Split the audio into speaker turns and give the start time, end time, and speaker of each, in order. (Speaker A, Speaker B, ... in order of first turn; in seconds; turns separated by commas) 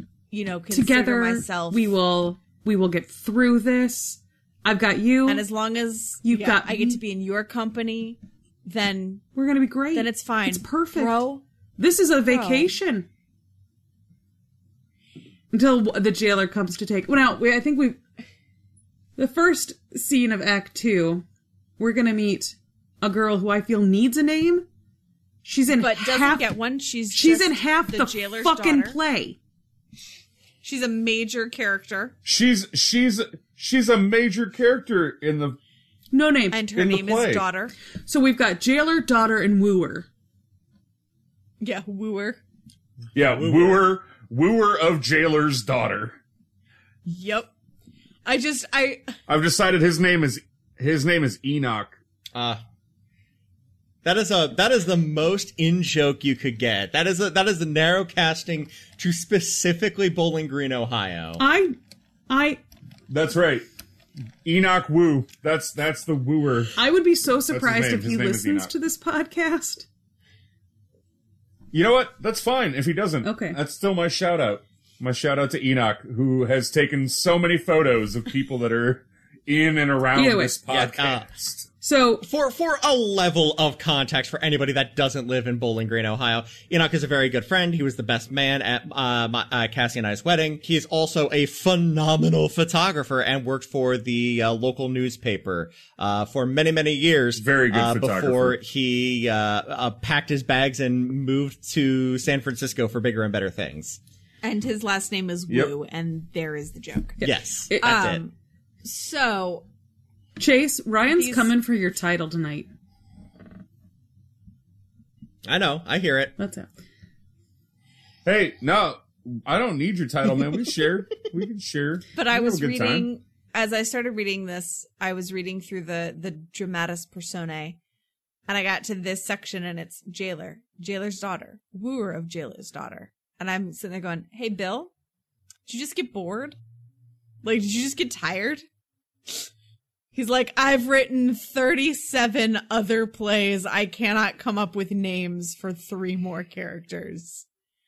Speaker A: 0.3-1.9, Speaker B: 0.7-5.4, Speaker A: 5.3-9.2, Speaker B: 6.2-7.0, Speaker B: 9.3-11.2, Speaker A: 9.9-11.4, Speaker B: 11.8-13.1, Speaker A: 12.3-12.7, Speaker B: 15.5-18.0, Speaker B: 19.2-21.2, Speaker B: 21.8-24.6, Speaker B: 25.4-26.5, Speaker A: 25.8-29.0, Speaker B: 27.1-29.4, Speaker A: 30.6-32.1, Speaker C: 32.2-35.6, Speaker B: 36.1-36.6, Speaker A: 36.5-37.7, Speaker C: 36.8-37.4, Speaker B: 38.1-40.1, Speaker A: 41.6-42.4, Speaker C: 43.1-46.2, Speaker D: 43.4-43.8, Speaker A: 47.0-47.5, Speaker A: 48.3-49.1, Speaker C: 49.3-52.0, Speaker D: 52.3-52.6, Speaker D: 54.0-61.4, Speaker B: 61.4-61.8, Speaker B: 62.3-62.6, Speaker C: 63.1-63.6, Speaker C: 64.4-66.8, Speaker B: 66.8-69.9, Speaker C: 67.5-68.7, Speaker C: 71.7-81.6, Speaker B: 73.2-73.6, Speaker B: 80.1-80.6, Speaker D: 80.7-81.3, Speaker B: 81.8-82.2, Speaker D: 82.2-104.0, Speaker C: 97.4-98.6, Speaker A: 104.4-107.2, Speaker B: 107.2-108.1, Speaker D: 107.2-108.2, Speaker A: 107.8-108.3, Speaker A: 108.8-109.7, Speaker B: 110.4-112.7, Speaker A: 111.1-111.5, Speaker D: 115.4-116.3, Speaker B: 116.4-116.7, Speaker C: 118.2-123.1, Speaker A: 122.2-127.8, Speaker A: 128.5-134.9, Speaker A: 135.7-136.6, Speaker A: 137.4-138.6, Speaker A: 140.1-147.4